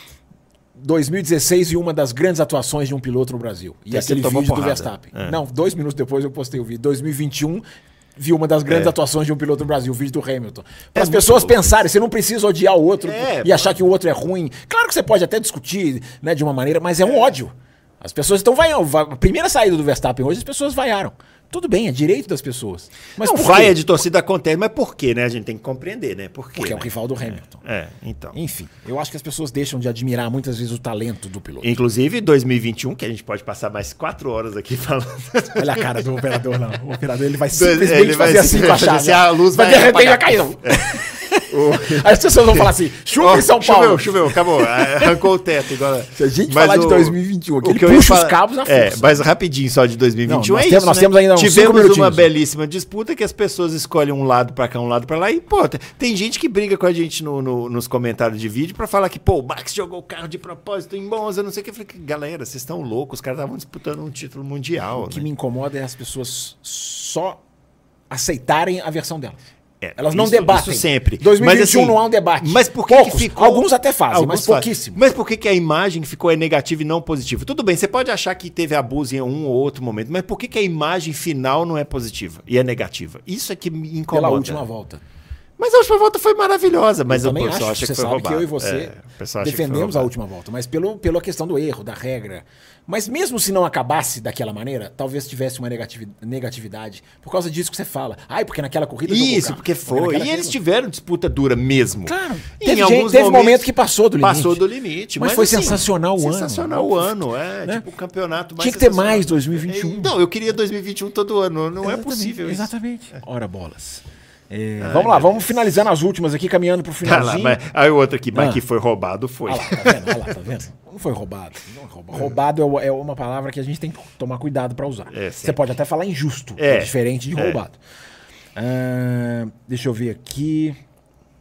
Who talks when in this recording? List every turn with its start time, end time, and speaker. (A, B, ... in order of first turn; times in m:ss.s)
0:00.8-0:07.6 A
0:03.9-0:05.4 B
0:08.2-0:23.8 A
0:08.7-0:08.9 B
0:11.0-0:11.8 B
0:13.0-0:13.8 B
0:23.2-0:28.4 B
0:26.6-0:27.6 A
0:28.3-0:31.7 A
0:31.6-0:36.0 B
0:35.6-0:45.2 A
0:37.5-1:05.3 B
0:46.2-0:49.2 A
0:50.3-0:52.3 A
1:04.9-1:07.4 A
1:08.1-1:09.4 A
1:09.8-1:24.7 B
1:10.0-1:15.0 A
1:24.1-1:25.0 A
1:25.6-1:30.1 B
1:27.1-1:40.6 A
1:39.1-1:43.7 B
1:42.0-1:44.6 A
1:44.2-1:52.7 B
1:45.2-1:47.8 A
1:48.6-1:50.1 A
1:51.8-1:57.6 A
1:54.8-1:55.7 B
1:57.0-2:00.2 B
1:58.3-1:58.6 A
1:59.5-2:07.8 A
2:05.1-2:05.6 B
2:06.6-2:07.6 B
2:08.6-2:10.8 A